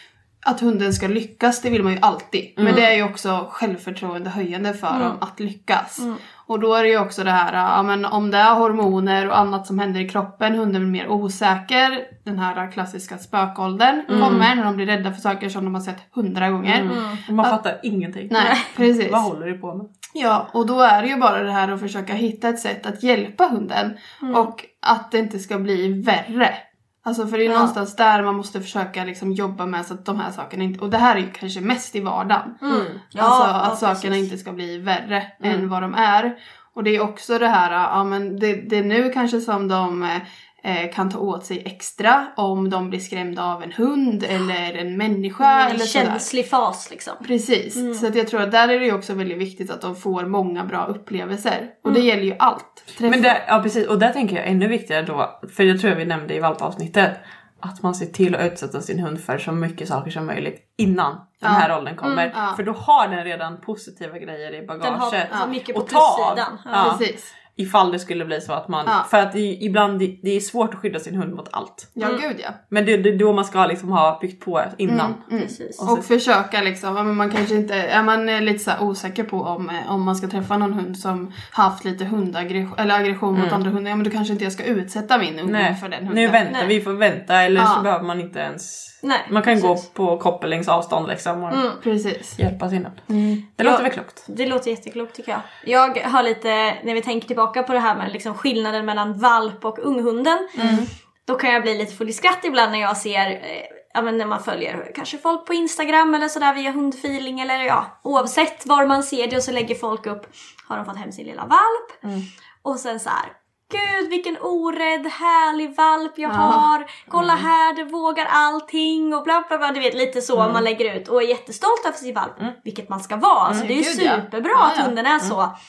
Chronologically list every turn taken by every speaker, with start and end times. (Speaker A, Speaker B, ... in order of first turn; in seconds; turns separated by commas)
Speaker A: 0.4-17.6, Speaker B: 2.6-2.8, Speaker C: 4.9-5.2, Speaker B: 14.1-14.5, Speaker B: 16.6-19.9, Speaker C: 16.9-17.2, Speaker A: 18.3-19.2, Speaker C: 18.4-18.6, Speaker A: 20.1-32.6, Speaker C: 24.2-24.5, Speaker C: 27.4-27.7, Speaker C: 32.6-34.3, Speaker B: 32.7-33.0, Speaker A: 33.1-46.2, Speaker C: 45.4-47.2, Speaker A: 47.2-53.4, Speaker C: 47.8-48.0, Speaker B: 53.1-71.9, Speaker A: 61.4-61.7, Speaker C: 62.0-62.3, Speaker A: 62.3-62.6, Speaker C: 64.8-66.9, Speaker A: 65.3-65.5, Speaker A: 66.7-67.3, Speaker A: 72.0-72.5, Speaker B: 72.7-75.2, Speaker A: 74.9-86.4, Speaker C: 75.3-75.8, Speaker B: 75.7-76.0, Speaker B: 83.3-83.6, Speaker B: 85.5-91.7, Speaker A: 87.6-87.8, Speaker C: 89.0-89.8, Speaker C: 91.5-91.8, Speaker A: 91.8-92.4, Speaker B: 92.4-93.0, Speaker A: 93.1-93.4, Speaker B: 93.5-94.2, Speaker C: 93.6-100.5, Speaker A: 100.5-100.9, Speaker B: 100.6-100.8, Speaker C: 101.2-112.0, Speaker C: 112.6-125.5, Speaker A: 116.3-116.7, Speaker B: 117.1-117.5, Speaker B: 120.3-120.6, Speaker A: 123.6-124.9